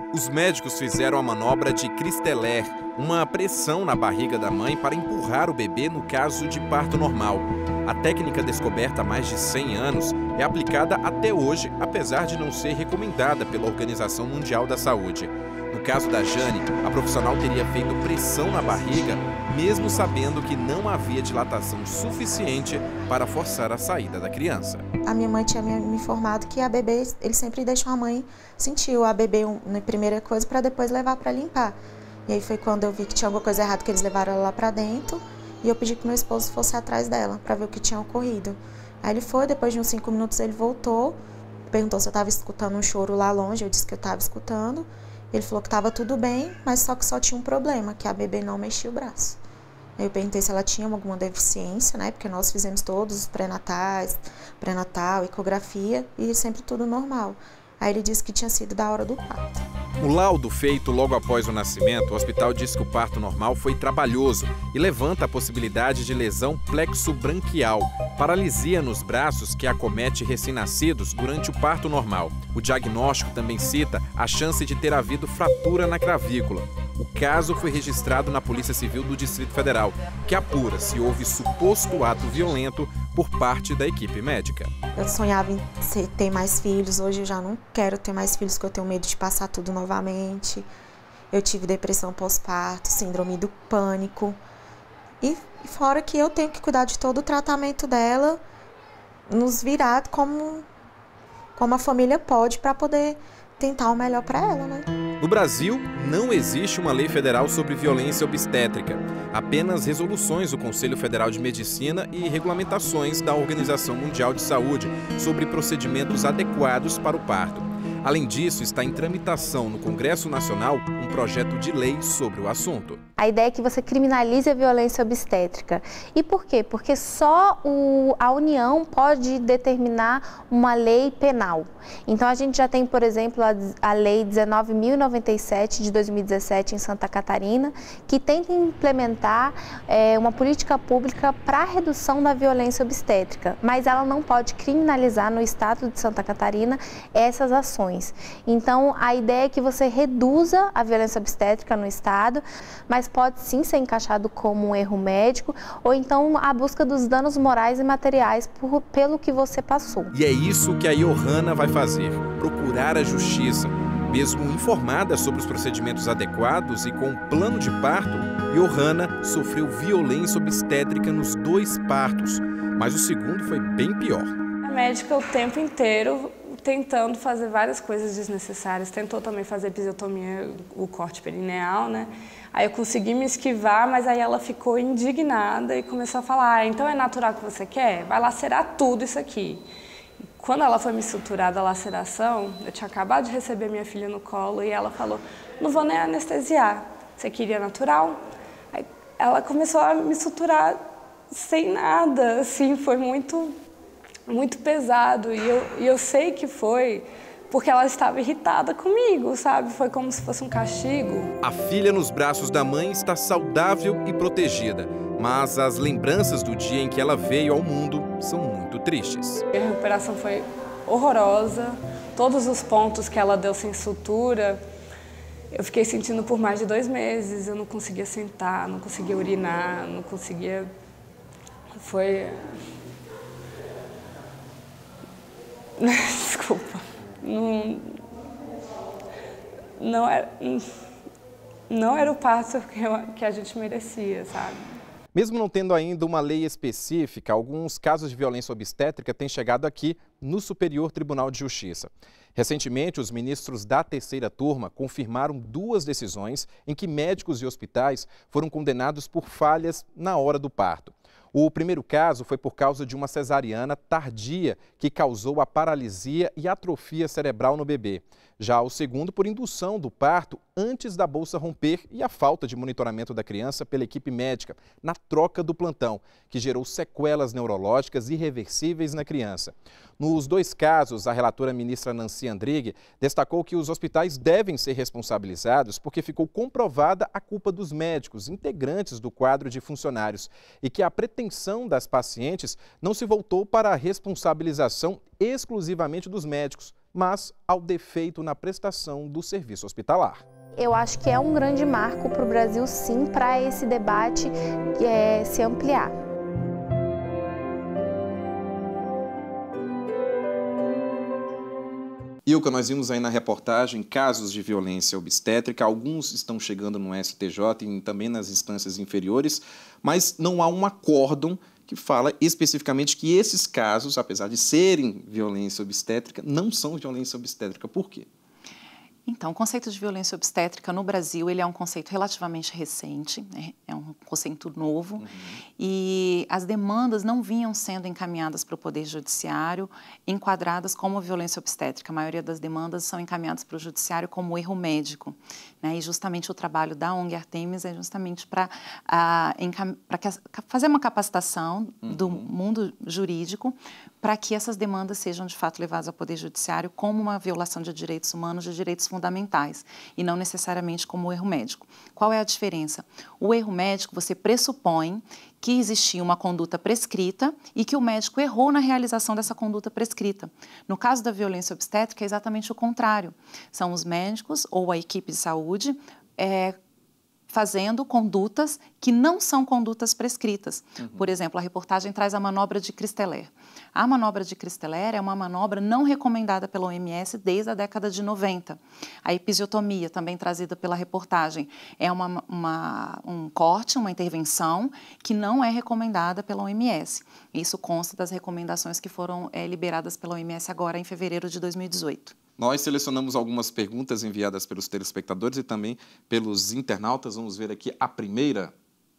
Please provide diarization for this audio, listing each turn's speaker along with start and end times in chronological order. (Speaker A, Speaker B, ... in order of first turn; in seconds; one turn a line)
Speaker A: 0.1-24.8
Speaker B: 25.0-41.2
Speaker B: 41.7-49.4
Speaker B: 50.0-59.6
Speaker A: 60.0-84.7
Speaker B: 84.9-90.7
Speaker B: 91.3-94.4
Speaker B: 95.2-98.4
Speaker B: 99.3-100.7
Speaker B: 101.5-104.9
Speaker A: 105.2-123.0
Speaker C: 123.2-160.1
Speaker A: 160.1-174.3
Speaker D: 174.6-189.6
Speaker D: 190.4-198.2
Speaker D: 198.7-203.6
Speaker D: 204.3-211.3
Speaker A: 211.4-219.4
Speaker D: 219.5-224.6
Speaker D: 225.5-230.7
Speaker D: 231.7-232.5
Speaker D: 235.8-238.0
Speaker D: 239.8-240.7
Speaker D: 241.7-244.8
Speaker A: 245.1-300.2
Speaker C: 300.6-305.9
Speaker A: 312.2-328.1
Speaker E: 329.1-335.0
Speaker A: 335.0-335.4
Speaker E: 335.6-376.6
Speaker A: 351.8-352.3
Speaker E: 377.3-402.1
Speaker A: 402.4-408.5